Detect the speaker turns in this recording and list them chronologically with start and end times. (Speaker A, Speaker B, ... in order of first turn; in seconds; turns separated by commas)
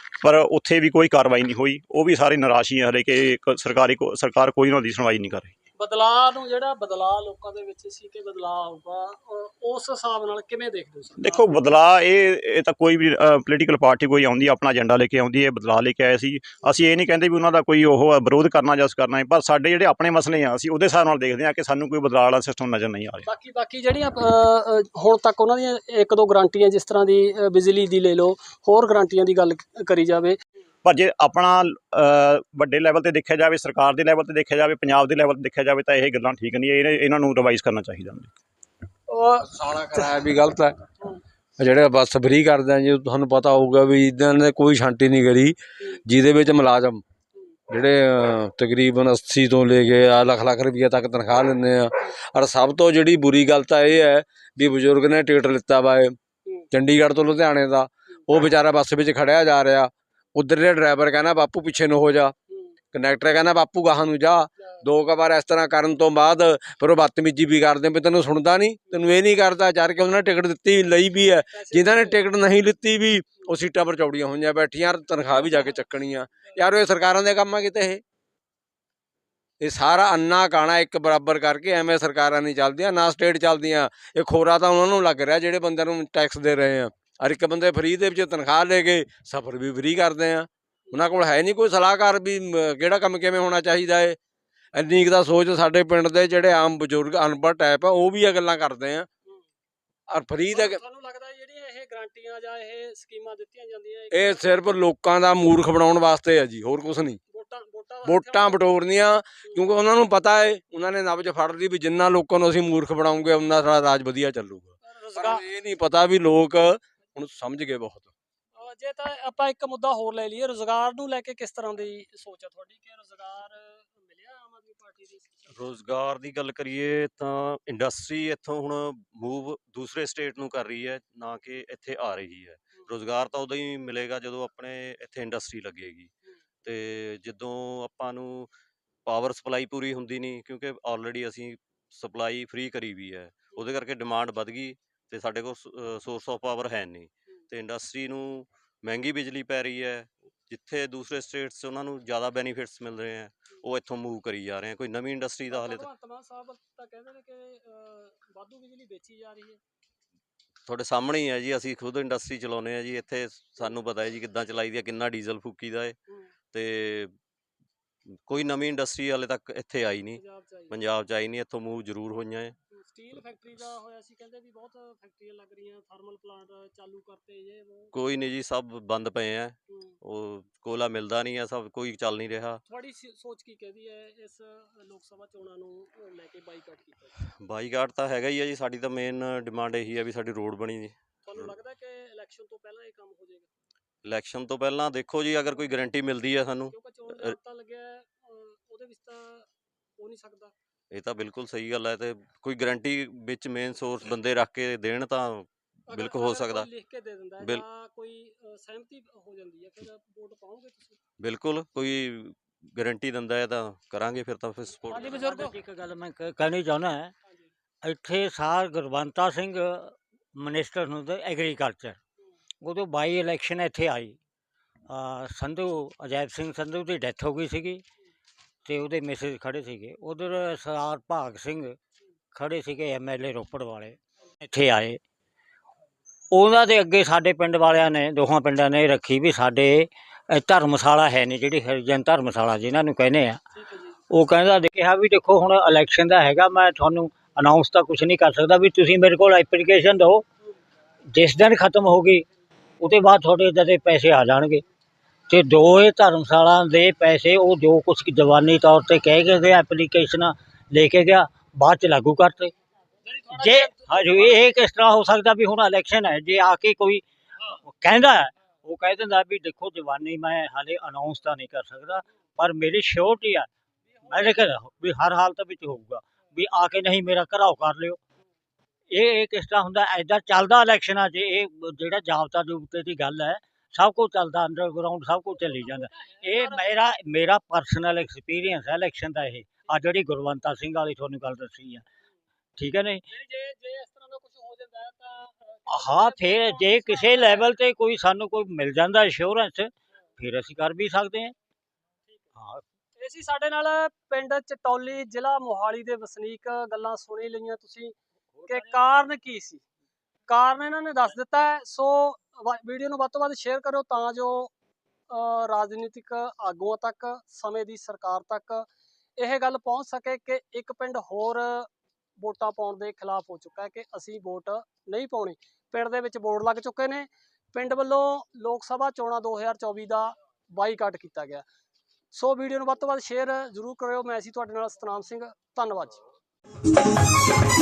Speaker A: 0.2-5.5, Speaker B: 5.8-11.4, Speaker A: 11.2-23.3, Speaker B: 23.2-30.4, Speaker A: 30.8-38.3, Speaker B: 39.1-40.0, Speaker C: 39.4-40.8, Speaker C: 41.6-45.5, Speaker C: 46.0-47.0, Speaker C: 47.7-56.1, Speaker C: 56.7-62.3, Speaker C: 62.9-78.0, Speaker B: 71.5-72.2, Speaker C: 79.6-94.2, Speaker C: 94.7-99.1, Speaker C: 100.1-100.8, Speaker B: 100.5-104.4, Speaker C: 104.1-107.2, Speaker B: 107.3-108.6, Speaker C: 108.0-118.1, Speaker B: 114.8-115.4, Speaker B: 118.5-125.5, Speaker D: 125.5-136.1, Speaker D: 136.6-138.5, Speaker D: 139.1-155.9, Speaker B: 155.5-159.6, Speaker D: 160.7-166.0, Speaker D: 166.5-167.1, Speaker D: 168.3-172.6, Speaker B: 170.2-170.7, Speaker B: 172.7-177.9, Speaker D: 177.9-182.6, Speaker B: 179.7-179.9, Speaker B: 182.7-187.2, Speaker D: 187.4-190.9, Speaker B: 191.2-193.5, Speaker D: 194.0-197.3, Speaker B: 196.7-199.5, Speaker B: 200.0-200.5, Speaker D: 200.9-206.7, Speaker B: 205.9-211.0, Speaker D: 211.2-215.1, Speaker B: 214.9-215.5, Speaker E: 214.9-217.1, Speaker E: 217.8-222.0, Speaker E: 222.6-224.2, Speaker E: 224.9-227.8, Speaker E: 228.7-231.8, Speaker E: 232.3-235.0, Speaker E: 236.3-243.4, Speaker B: 243.5-244.0, Speaker E: 244.1-250.2, Speaker E: 251.1-252.2, Speaker E: 252.8-254.6, Speaker E: 255.3-262.5, Speaker B: 263.1-264.4, Speaker E: 263.3-267.0, Speaker E: 267.6-273.5, Speaker B: 273.9-274.5, Speaker E: 274.0-278.0, Speaker E: 278.9-291.8, Speaker B: 285.3-286.6, Speaker E: 292.6-293.0, Speaker B: 293.1-297.5, Speaker E: 295.7-301.3, Speaker E: 302.4-302.6, Speaker B: 303.0-307.9, Speaker E: 308.3-308.9, Speaker B: 308.4-309.6, Speaker B: 310.3-314.5, Speaker B: 315.1-331.4, Speaker B: 332.1-336.0